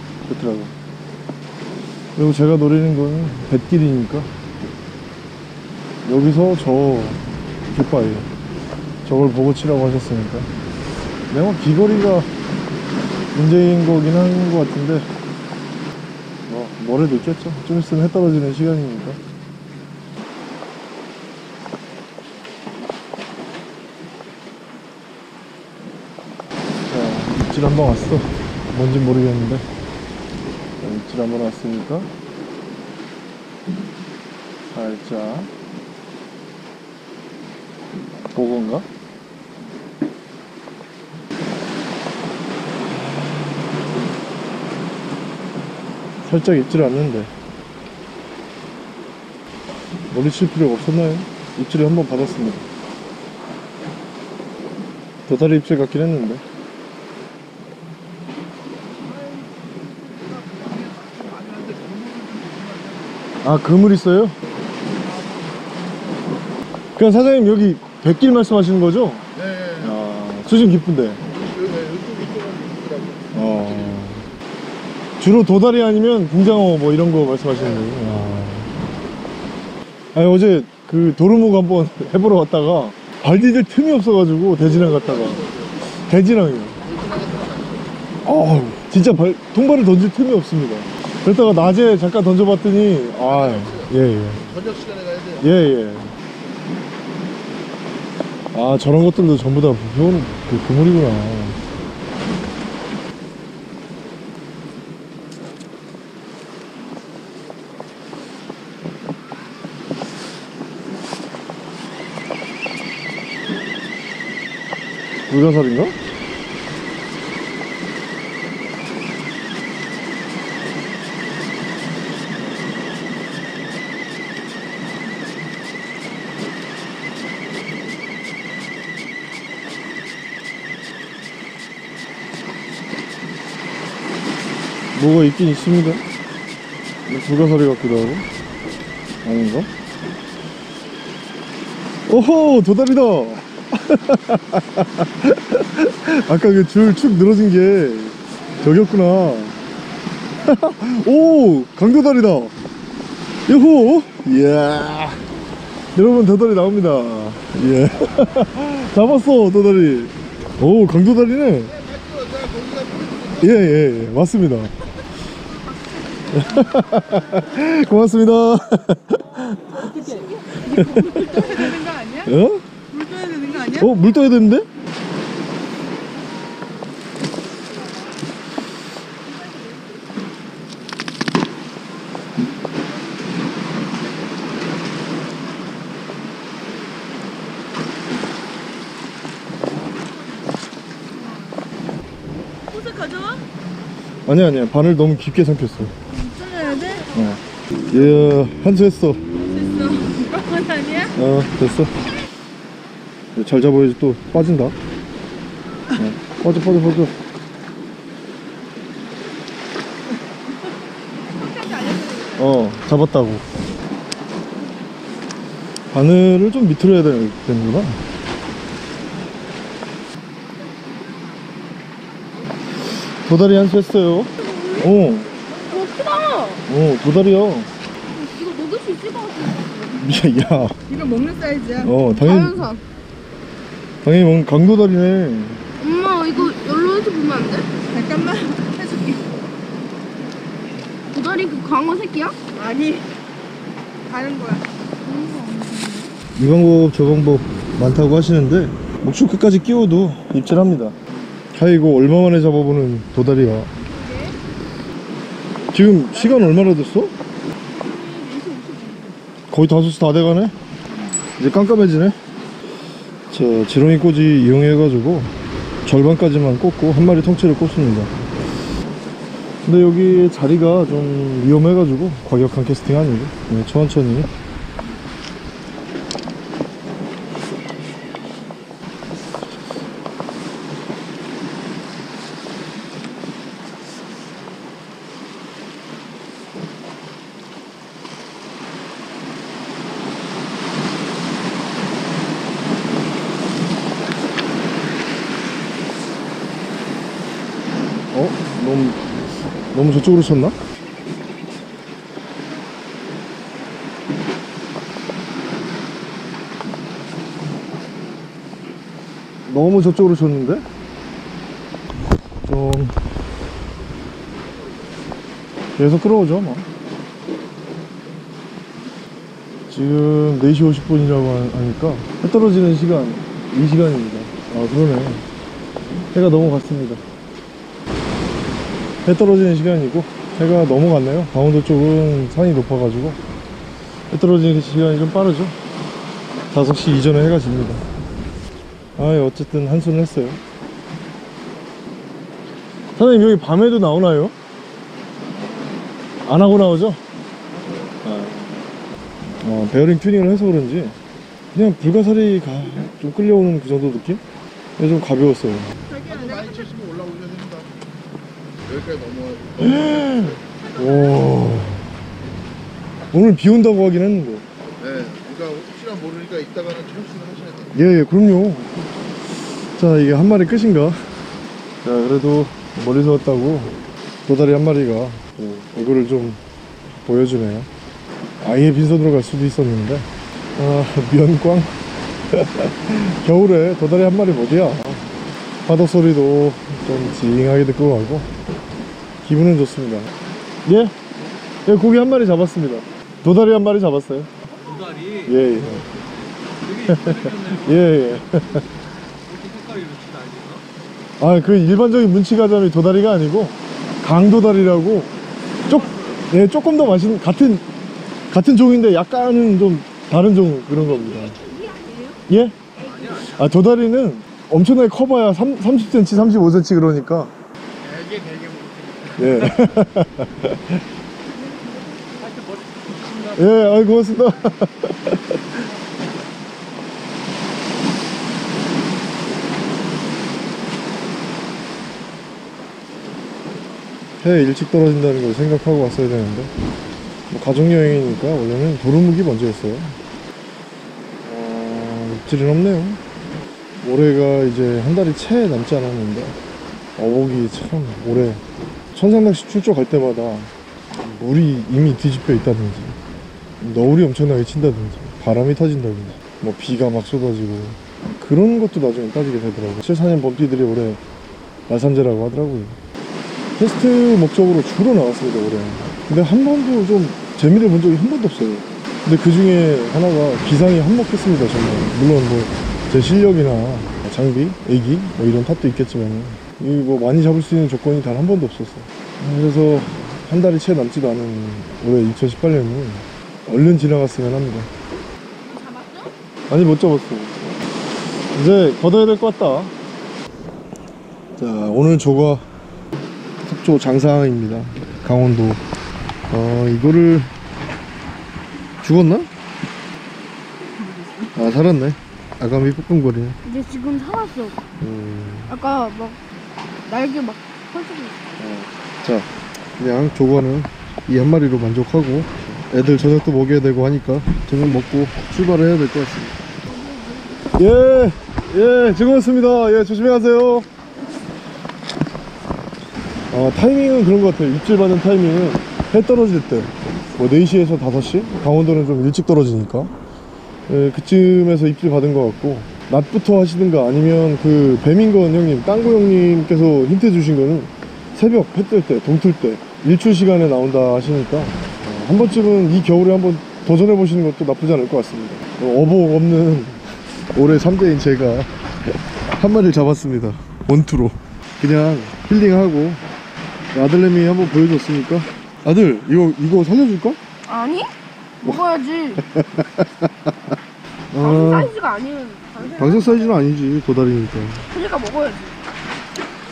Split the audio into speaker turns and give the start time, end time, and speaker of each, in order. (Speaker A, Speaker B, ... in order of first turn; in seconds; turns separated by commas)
Speaker A: 0.2-0.7, Speaker A: 2.2-4.3, Speaker A: 6.0-8.3, Speaker A: 9.1-10.5, Speaker A: 11.3-12.3, Speaker A: 13.3-15.1, Speaker A: 16.5-19.2, Speaker A: 26.9-29.7, Speaker A: 30.8-32.1, Speaker A: 34.7-35.5, Speaker A: 38.3-38.9, Speaker A: 46.2-47.3, Speaker A: 50.1-52.6, Speaker A: 55.3-56.4, Speaker A: 63.4-64.4, Speaker A: 67.0-71.2, Speaker B: 71.4-73.2, Speaker A: 73.3-74.3, Speaker A: 75.2-78.7, Speaker A: 80.2-86.8, Speaker B: 86.9-87.8, Speaker A: 88.2-94.6, Speaker B: 94.6-95.3, Speaker A: 95.4-96.1, Speaker A: 98.5-101.6, Speaker A: 115.3-116.0, Speaker A: 134.9-136.0, Speaker A: 137.1-138.3, Speaker A: 139.2-139.7, Speaker A: 142.1-149.6, Speaker A: 150.4-152.5, Speaker A: 153.5-155.2, Speaker A: 155.9-161.8, Speaker B: 162.1-163.2, Speaker A: 163.3-164.7, Speaker A: 166.3-169.8, Speaker C: 169.9-172.3, Speaker D: 170.2-170.6, Speaker A: 170.6-172.6, Speaker C: 172.9-174.0, Speaker A: 173.7-174.7, Speaker C: 191.1-191.7, Speaker C: 192.7-193.4, Speaker A: 194.3-195.9, Speaker C: 196.1-197.2, Speaker A: 197.1-199.2, Speaker C: 199.4-201.1, Speaker A: 201.1-201.9, Speaker A: 203.3-204.8, Speaker A: 205.9-207.1, Speaker D: 211.3-212.4, Speaker A: 212.2-213.4, Speaker A: 215.9-218.0, Speaker A: 222.9-225.3, Speaker D: 224.4-224.8, Speaker D: 225.5-226.6, Speaker A: 226.7-227.7, Speaker D: 228.1-230.5, Speaker A: 230.0-230.8, Speaker C: 230.9-231.9, Speaker A: 231.8-232.7, Speaker D: 232.1-232.8, Speaker A: 234.0-235.6, Speaker D: 235.8-237.8, Speaker C: 237.9-239.3, Speaker D: 241.1-242.7, Speaker C: 242.6-243.1, Speaker C: 244.1-246.1, Speaker A: 246.4-251.0, Speaker A: 251.5-253.7, Speaker D: 253.9-254.4, Speaker A: 255.7-257.1, Speaker D: 257.7-259.2, Speaker A: 259.5-260.6, Speaker A: 261.4-262.2, Speaker A: 263.3-265.3, Speaker A: 265.9-268.3, Speaker A: 269.6-274.3, Speaker A: 298.1-299.0, Speaker A: 299.7-300.6, Speaker A: 309.5-310.7, Speaker A: 312.5-312.9, Speaker A: 315.8-316.7, Speaker A: 319.7-325.2, Speaker A: 326.1-327.0, Speaker A: 329.1-333.2, Speaker A: 334.1-335.6, Speaker A: 336.5-337.8, Speaker A: 339.0-340.4, Speaker A: 343.0-344.3, Speaker A: 346.2-347.0, Speaker A: 348.0-348.6, Speaker A: 349.4-351.0, Speaker A: 351.5-354.2, Speaker A: 354.8-355.8, Speaker D: 355.9-356.8, Speaker B: 356.6-357.7, Speaker B: 358.7-359.5, Speaker A: 359.6-361.9, Speaker A: 363.1-364.4, Speaker B: 364.8-367.7, Speaker A: 367.7-368.8, Speaker A: 369.8-371.0, Speaker A: 371.8-373.7, Speaker A: 374.3-376.4, Speaker A: 377.0-377.7, Speaker A: 378.4-381.7, Speaker A: 382.3-385.1, Speaker A: 385.6-388.3, Speaker A: 389.2-390.1, Speaker A: 390.6-390.9, Speaker A: 391.6-394.3, Speaker B: 394.8-395.2, Speaker A: 395.2-395.9, Speaker B: 396.6-397.7, Speaker A: 396.8-398.6, Speaker B: 399.3-400.6, Speaker A: 401.2-405.1, Speaker A: 405.7-407.6, Speaker A: 408.3-411.4, Speaker D: 410.9-412.2, Speaker A: 412.3-412.6, Speaker D: 412.8-413.3, Speaker A: 413.2-417.3, Speaker B: 417.9-419.1, Speaker A: 419.1-420.8, Speaker D: 421.4-422.2, Speaker B: 422.2-423.4, Speaker A: 423.3-425.6, Speaker A: 434.2-436.5, Speaker A: 437.3-440.0, Speaker A: 441.2-443.0, Speaker A: 443.8-446.4, Speaker A: 447.0-453.0, Speaker A: 453.6-461.0, Speaker A: 461.7-462.8, Speaker A: 463.6-484.7, Speaker D: 485.5-486.1, Speaker A: 486.5-487.4, Speaker A: 488.3-489.7, Speaker A: 491.4-492.4, Speaker A: 493.4-495.6, Speaker A: 496.3-497.3, Speaker A: 498.8-499.3, Speaker A: 501.3-503.4, Speaker D: 503.4-504.6, Speaker A: 504.8-505.6, Speaker D: 505.5-506.2, Speaker D: 506.9-508.5, Speaker A: 508.4-516.4, Speaker D: 516.6-517.6, Speaker A: 517.5-520.7, Speaker A: 523.3-529.9, Speaker A: 530.7-546.8, Speaker A: 547.3-548.5, Speaker A: 549.4-553.0, Speaker A: 553.7-557.2, Speaker D: 557.5-557.9, Speaker D: 558.4-559.2, Speaker A: 559.4-559.8, Speaker A: 561.1-561.7, Speaker D: 561.2-563.4, Speaker A: 562.8-564.7, Speaker D: 564.7-565.6